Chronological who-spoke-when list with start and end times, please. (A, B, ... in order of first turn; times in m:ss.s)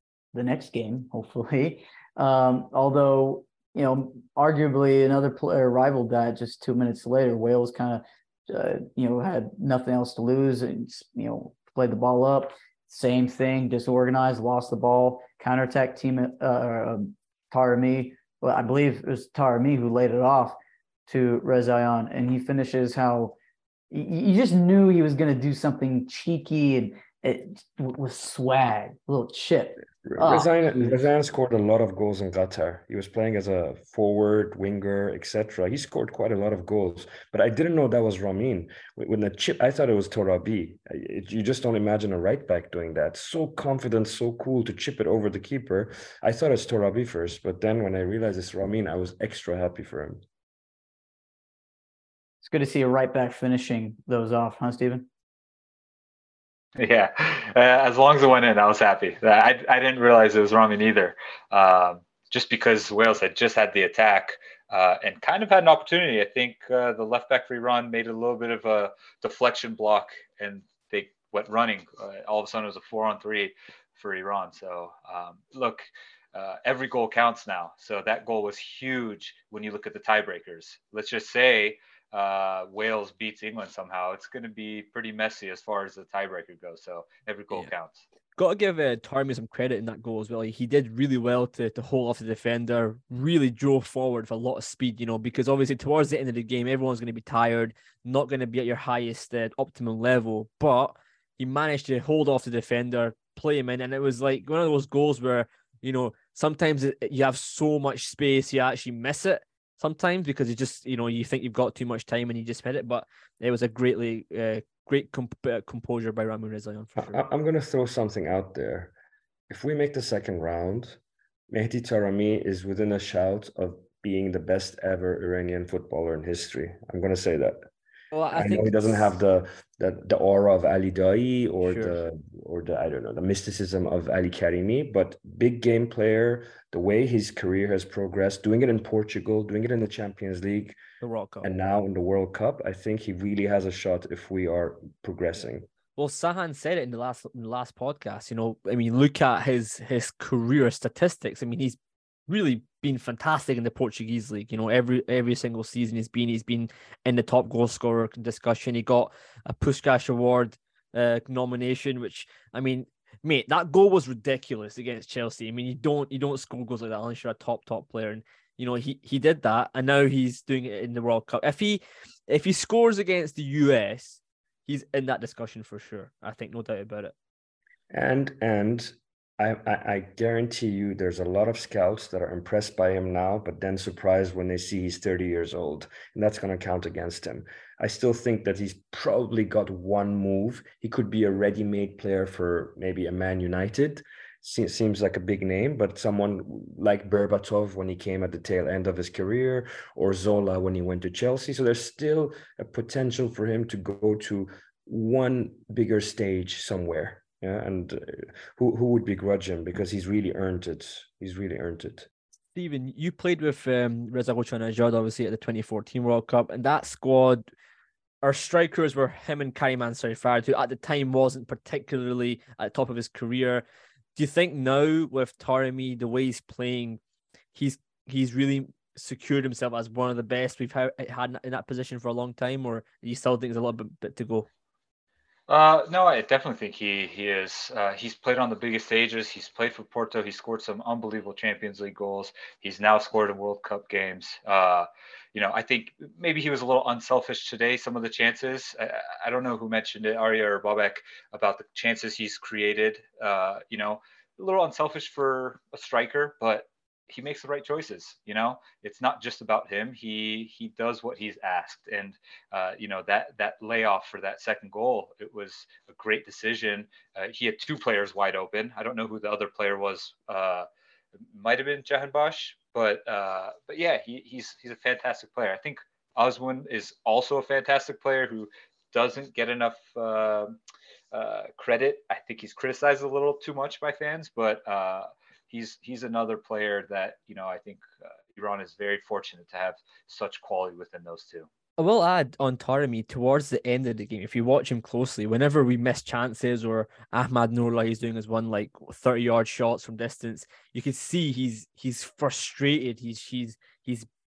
0:00.3-0:20.6 A
0:21.1-0:23.4 A
0:23.9-0:30.5 A
0:30.0-0:50.2 B
0:52.4-0:55.0 A
0:56.8-1:28.0 C
1:28.4-1:57.2 D
1:57.0-1:58.9 B
1:59.5-2:01.0 B
2:01.5-2:07.6 B
2:08.1-2:09.1 D
2:08.3-2:20.8 B
2:11.6-2:12.0 D
2:21.0-2:21.5 D
2:21.4-2:25.7 B
2:26.0-2:57.1 D
2:57.9-3:32.1 B
3:32.5-3:37.4 D
3:38.2-3:43.6 D
3:44.2-3:47.0 D
3:47.5-3:54.5 D
3:55.5-4:30.6 C
4:31.3-4:40.6 C
4:41.1-4:51.5 C
4:51.8-5:04.1 D